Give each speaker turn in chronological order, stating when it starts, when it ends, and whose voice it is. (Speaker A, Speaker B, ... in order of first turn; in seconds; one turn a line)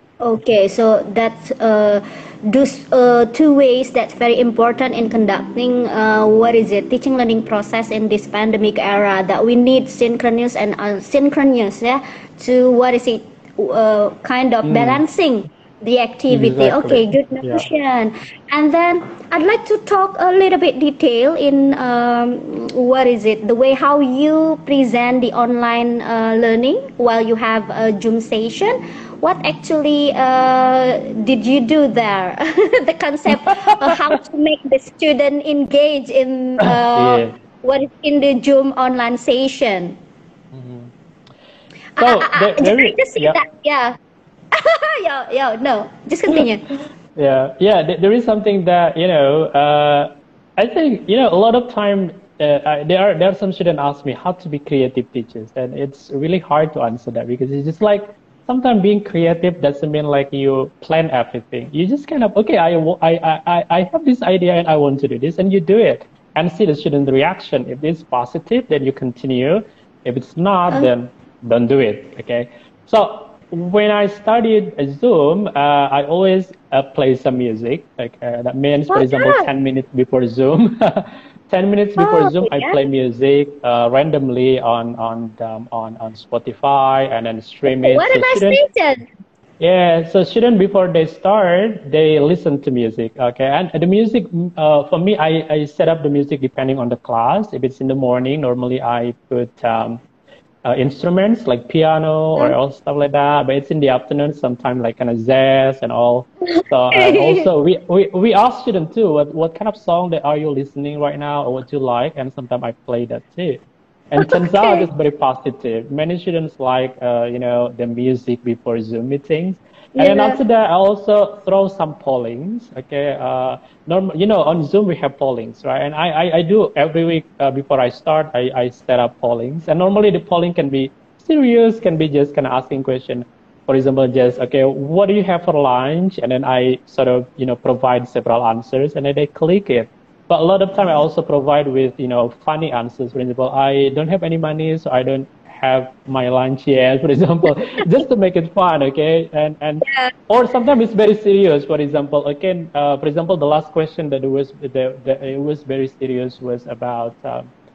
Speaker A: 0.2-40.0
Speaker B: 14.6-15.0
Speaker B: 16.3-17.7
Speaker B: 33.5-33.9
Speaker B: 36.6-37.4
Speaker B: 40.5-40.9
Speaker A: 42.0-44.0
Speaker B: 42.0-43.4
Speaker A: 44.5-46.7
Speaker B: 47.1-88.6
Speaker A: 78.9-79.5
Speaker A: 82.0-82.8
Speaker A: 87.7-89.0
Speaker B: 89.6-100.0
Speaker B: 100.7-113.6
Speaker A: 106.5-107.5
Speaker B: 114.1-157.5
Speaker A: 114.2-114.8
Speaker A: 120.0-120.4
Speaker A: 149.8-150.1